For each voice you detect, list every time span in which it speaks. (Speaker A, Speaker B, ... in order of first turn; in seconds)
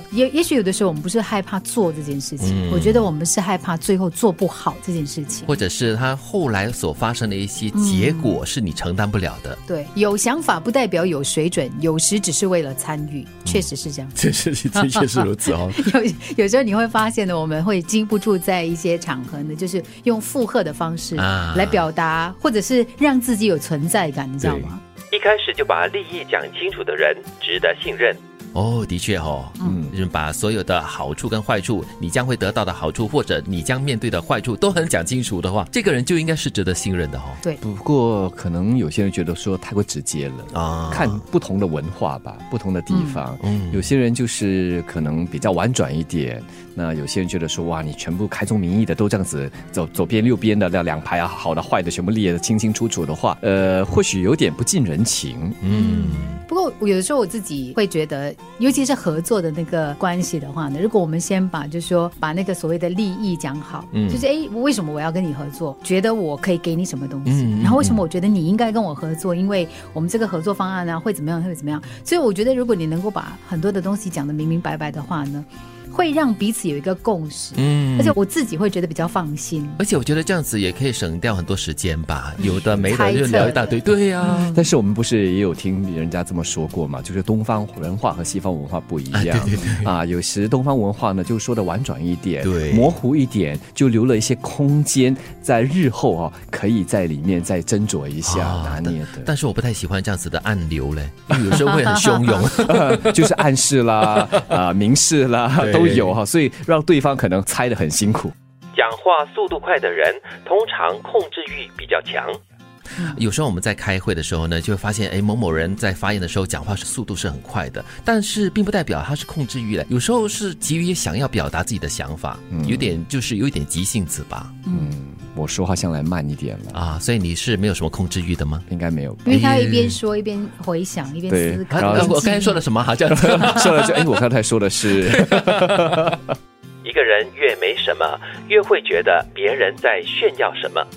Speaker A: 0.1-5.6, 7.7-8.4, 9.7-14.2, 14.7-24.8, 42.9-43.2, 55.7-79.8, 82.4-84.6, 124.7-124.9, 129.2-132.6
Speaker B: 2.4-3.1, 5.5-9.6, 13.4-15.8, 21.1-21.9, 28.5-37.4, 40.5-41.2, 43.4-43.9, 55.6-56.4, 63.9-64.2, 67.2-68.0, 77.5-78.1, 79.8-84.5, 89.1-89.9, 92.4-92.9, 98.2-103.4, 104.1-104.5, 105.6-106.2, 113.0-124.5, 126.7-128.7, 129.3-130.0, 131.7-134.2, 135.2-136.0
Speaker C: 25.1-28.2, 108.7-112.4, 136.8-140.8
Speaker D: 29.6-29.9, 37.6-55.6, 82.4-83.6, 84.3-99.3, 102.6-108.3, 122.5-123.0, 124.7-126.8, 128.7-129.2, 131.3-132.2, 133.1-136.3